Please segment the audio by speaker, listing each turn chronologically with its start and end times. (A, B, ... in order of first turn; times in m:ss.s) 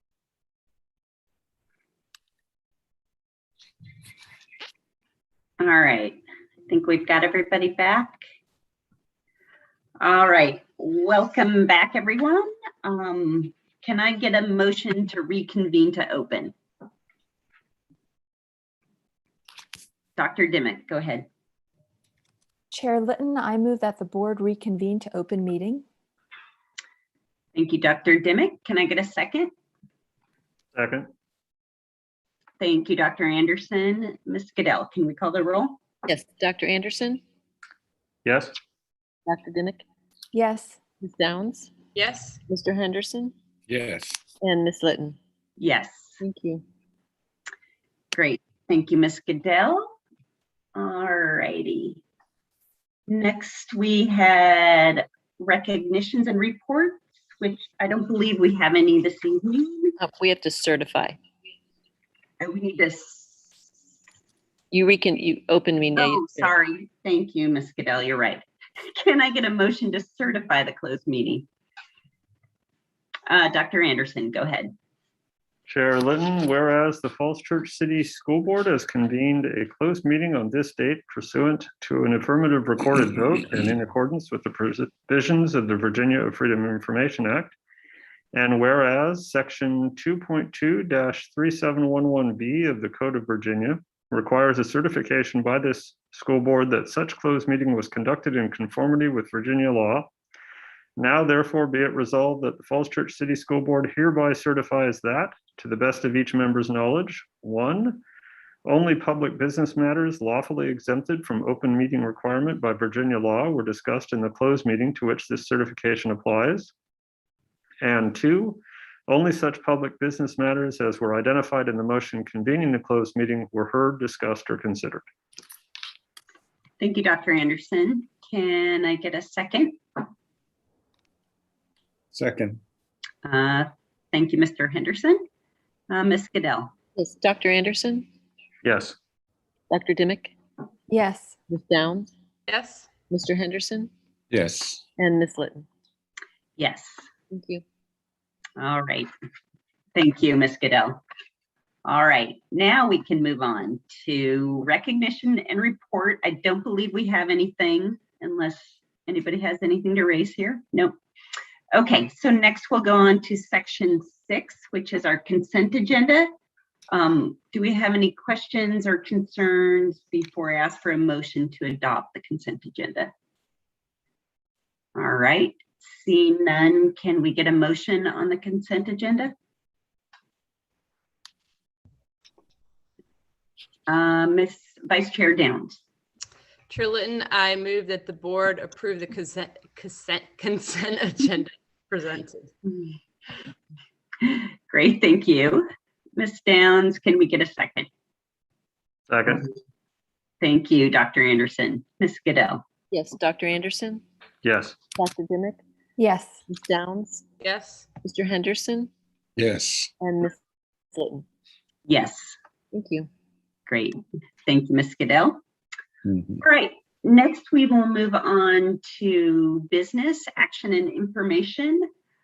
0:05.6-0:08.2 A
0:10.0-0:16.5 A
0:20.2-0:21.3 A
0:22.7-0:25.8 B
0:27.5-0:29.5 A
0:30.7-0:31.1 C
0:32.6-0:35.8 A
0:36.1-0:37.2 D
0:38.2-0:38.6 C
0:39.3-0:39.8 D
0:40.3-0:40.8 B
0:41.0-0:41.8 D
0:42.0-0:42.4 E
0:42.5-0:43.3 D
0:43.7-0:44.2 F
0:44.4-0:45.2 D
0:45.6-0:46.2 A
0:46.2-0:46.6 D
0:48.1-0:49.8 A
0:50.8-0:52.0 A
0:53.1-0:59.9 A
1:00.0-1:01.2 D
1:02.4-1:03.5 A
1:04.7-1:06.5 D
1:06.0-1:11.5 A
1:13.3-1:14.7 A
1:15.7-1:27.6 C
1:28.3-1:40.1 C
1:41.0-1:48.0 C
1:48.6-1:56.7 C
1:57.8-2:05.0 C
2:06.8-2:09.8 A
2:12.1-2:12.6 F
2:13.2-2:15.2 A
2:15.9-2:16.7 A
2:17.0-2:18.1 D
2:18.6-2:19.0 C
2:19.7-2:20.3 D
2:20.9-2:21.3 B
2:21.5-2:22.1 D
2:22.5-2:22.9 E
2:23.1-2:23.9 D
2:24.3-2:24.8 F
2:25.0-2:25.7 D
2:26.6-2:27.0 A
2:27.3-2:27.6 D
2:28.6-2:29.1 A
2:30.0-2:31.0 A
2:31.9-2:41.0 A
2:41.8-2:46.3 A
2:46.9-2:53.1 A
2:55.0-2:59.3 A
3:03.9-3:05.8 A
3:06.7-3:12.5 E
3:14.2-3:15.6 A
3:16.2-3:17.9 A
3:19.1-3:19.5 C
3:20.4-3:22.6 A
3:22.9-3:24.0 D
3:24.4-3:24.8 C
3:25.0-3:25.6 D
3:26.0-3:26.4 B
3:26.5-3:27.3 D
3:27.4-3:27.9 E
3:28.0-3:28.9 D
3:29.4-3:29.9 F
3:30.0-3:30.3 D
3:30.9-3:31.2 D
3:31.9-3:32.4 A
3:32.7-3:33.1 D
3:33.7-3:35.4 A
3:36.1-3:36.4 F
3:36.4-3:41.8 A